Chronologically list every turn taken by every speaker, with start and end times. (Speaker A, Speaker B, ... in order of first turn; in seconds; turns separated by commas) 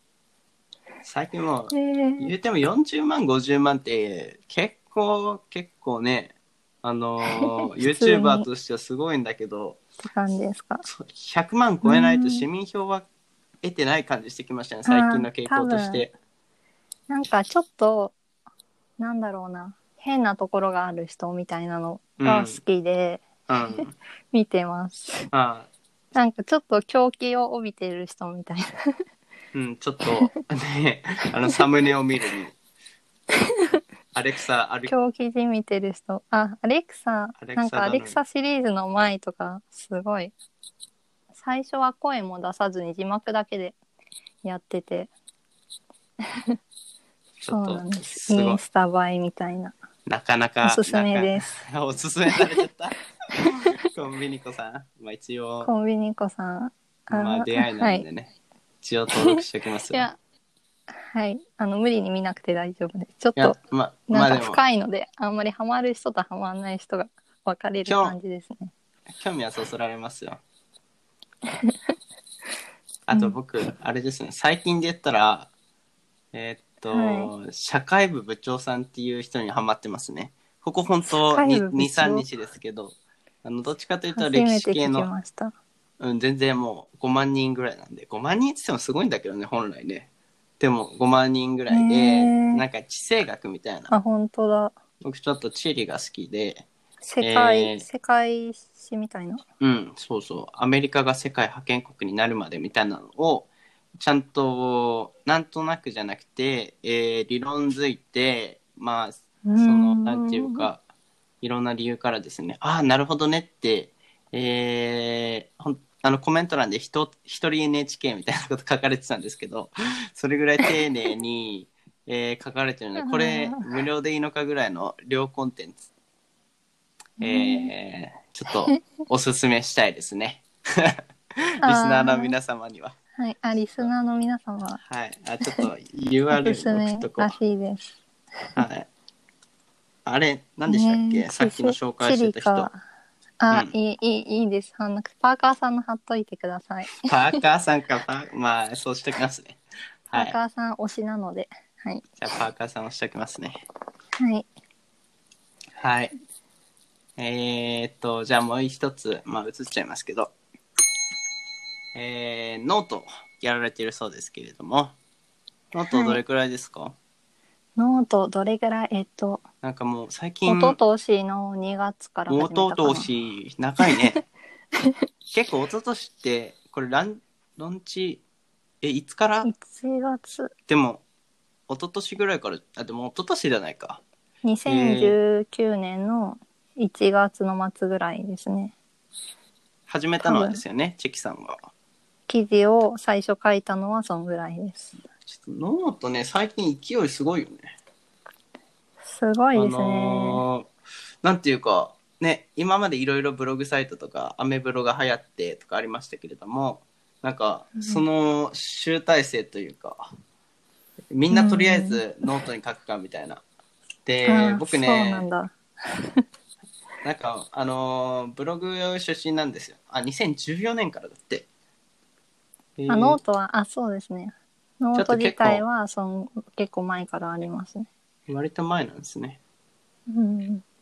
Speaker A: 1.0-9.8, Speaker B: 1.7-2.3, Speaker B: 7.3-8.5, Speaker B: 10.0-10.8, Speaker A: 10.8-13.1, Speaker B: 11.8-12.4, Speaker A: 13.6-16.1, Speaker B: 14.8-16.0, Speaker B: 17.1-18.1, Speaker B: 19.0-23.8, Speaker A: 22.2-22.6, Speaker A: 23.5-23.9, Speaker B: 24.3-25.3, Speaker A: 25.3-25.7, Speaker B: 26.1-28.7, Speaker A: 29.5-32.6, Speaker A: 34.1-34.9, Speaker B: 34.9-40.3, Speaker A: 37.4-38.2, Speaker B: 41.4-43.8, Speaker B: 44.4-45.1, Speaker A: 47.4-48.6, Speaker B: 47.5-49.7, Speaker A: 50.1-53.0, Speaker B: 50.6-51.5, Speaker B: 53.4-53.7, Speaker A: 53.6-55.7, Speaker B: 55.6-58.1, Speaker A: 57.1-60.1, Speaker B: 59.2-60.2, Speaker B: 61.1-63.6, Speaker A: 63.4-64.6, Speaker B: 64.1-68.7, Speaker A: 67.8-68.2, Speaker A: 69.2-70.4, Speaker A: 73.1-75.5, Speaker A: 76.3-85.1, Speaker B: 76.9-77.3, Speaker B: 81.0-82.2, Speaker B: 84.1-85.5, Speaker A: 86.0-90.1, Speaker A: 90.6-93.9, Speaker B: 91.7-92.6, Speaker B: 93.9-94.7, Speaker A: 95.0-96.7, Speaker B: 97.0-99.4, Speaker A: 97.2-97.9, Speaker A: 99.6-110.8, Speaker B: 109.5-110.7, Speaker A: 111.4-125.8, Speaker B: 123.0-123.7, Speaker B: 127.2-127.7, Speaker A: 127.2-132.9, Speaker B: 131.6-132.3, Speaker B: 133.2-134.8, Speaker A: 134.8-137.3, Speaker B: 136.3-138.0, Speaker A: 138.6-138.9, Speaker A: 140.1-142.7, Speaker B: 140.7-142.8, Speaker B: 143.4-147.4, Speaker A: 147.0-149.6, Speaker A: 150.1-150.4, Speaker B: 150.1-152.0, Speaker A: 152.2-153.6, Speaker B: 154.2-154.4, Speaker A: 155.8-156.1, Speaker A: 157.2-160.3, Speaker A: 161.9-164.9, Speaker A: 165.7-166.9, Speaker B: 165.9-166.2, Speaker B: 167.8-169.4, Speaker A: 169.6-170.8, Speaker B: 170.4-173.1, Speaker A: 172.3-174.2, Speaker A: 175.3-178.2, Speaker A: 178.8-179.5, Speaker B: 179.4-180.5, Speaker A: 180.7-181.0, Speaker A: 181.7-184.0, Speaker B: 184.4-188.7, Speaker A: 184.7-185.2, Speaker A: 189.9-191.6, Speaker B: 190.2-190.6, Speaker B: 192.3-195.0, Speaker A: 195.3-197.7, Speaker B: 199.1-200.4, Speaker A: 199.5-200.7, Speaker A: 201.2-210.1, Speaker B: 207.8-208.0, Speaker A: 211.1-213.4, Speaker B: 211.3-212.0, Speaker A: 214.1-215.2, Speaker B: 214.2-216.2, Speaker A: 217.0-221.5, Speaker A: 222.8-223.2, Speaker B: 222.9-227.9, Speaker A: 224.9-225.6, Speaker A: 228.3-229.4, Speaker B: 230.1-230.6